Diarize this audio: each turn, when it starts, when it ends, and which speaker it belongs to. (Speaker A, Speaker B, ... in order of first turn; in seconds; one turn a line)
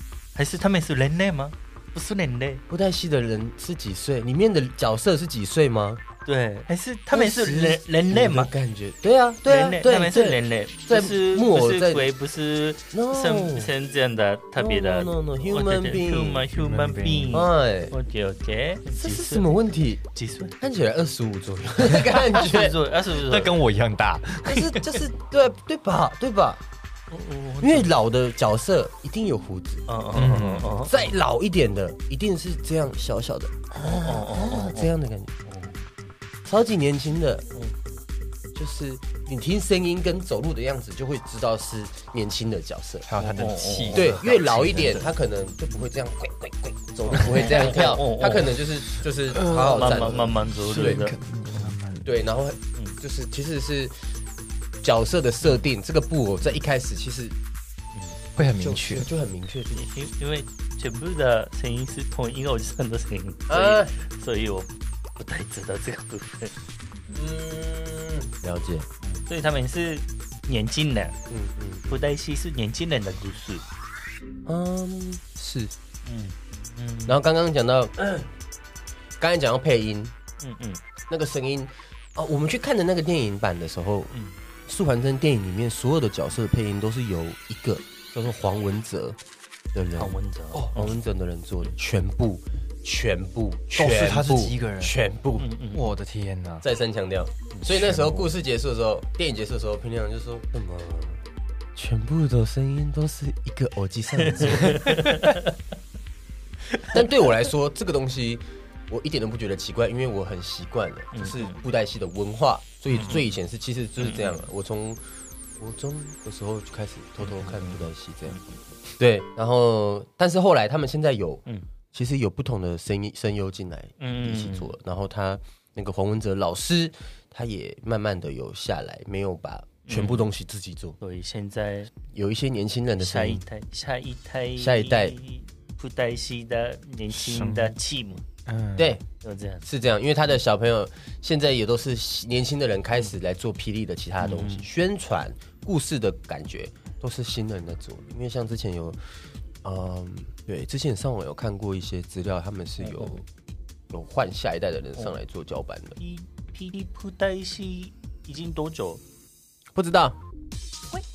Speaker A: 0.3-2.6
Speaker B: 2.7-6.0
Speaker A: 6.2-8.5
Speaker B: 7.1-12.1
Speaker A: 9.4-19.6
Speaker B: 12.9-13.7
Speaker B: 14.6-16.5
Speaker C: 16.5-17.4
Speaker B: 17.3-17.9
Speaker B: 18.9-20.0
Speaker A: 20.1-20.6
Speaker B: 20.6-22.7
Speaker A: 22.1-23.6
Speaker C: 23.2-24.9
Speaker B: 24.4-26.6
Speaker A: 27.1-27.9
Speaker B: 27.6-35.4
Speaker A: 29.9-31.1
Speaker C: 30.1-30.7
Speaker A: 33.8-35.8
Speaker B: 36.4-37.5
Speaker B: 38.5-43.1
Speaker C: 43.0-45.1
Speaker A: 43.2-44.2
Speaker B: 43.9-51.1
Speaker A: 47.1-48.6
Speaker C: 49.3-52.1
Speaker A: 49.5-51.7
Speaker B: 52.0-54.0
Speaker B: 54.8-57.4
Speaker C: 58.4-59.1
Speaker B: 58.4-59.9
Speaker A: 59.7-66.5
Speaker B: 63.5-63.9
Speaker B: 67.1-68.9
Speaker A: 69.0-71.2
Speaker B: 71.3-72.0
Speaker A: 71.9-73.6
Speaker B: 74.5-75.7
Speaker A: 76.0-77.2
Speaker B: 77.1-78.3
Speaker B: 79.2-80.1
Speaker A: 80.4-80.8
Speaker B: 81.1-84.1
Speaker A: 84.1-84.4
Speaker B: 84.7-89.2
Speaker B: 89.7-90.2
Speaker A: 89.9-91.0
Speaker B: 90.7-95.5
Speaker C: 93.8-94.9
Speaker A: 95.4-95.9
Speaker C: 95.7-96.7
Speaker B: 96.6-101.2
Speaker C: 97.7-98.2
Speaker B: 101.7-105.0
Speaker A: 104.2-105.5
Speaker B: 106.9-118.4
Speaker A: 111.1-111.6
Speaker C: 112.9-113.2
Speaker A: 113.0-113.3
Speaker A: 114.0-114.5
Speaker A: 117.2-118.6
Speaker B: 119.0-131.0
Speaker A: 124.0-124.7
Speaker A: 129.8-130.3
Speaker A: 131.0-131.9
Speaker B: 132.1-133.4
Speaker A: 133.0-138.2
Speaker B: 134.6-135.2
Speaker C: 137.1-137.8
Speaker C: 138.4-139.0
Speaker B: 138.8-139.0
Speaker A: 139.2-139.7
Speaker B: 139.6-149.1
Speaker A: 144.2-144.7
Speaker B: 149.6-153.2
Speaker A: 152.8-153.2
Speaker B: 153.9-156.0
Speaker A: 156.0-159.0
Speaker B: 159.7-160.2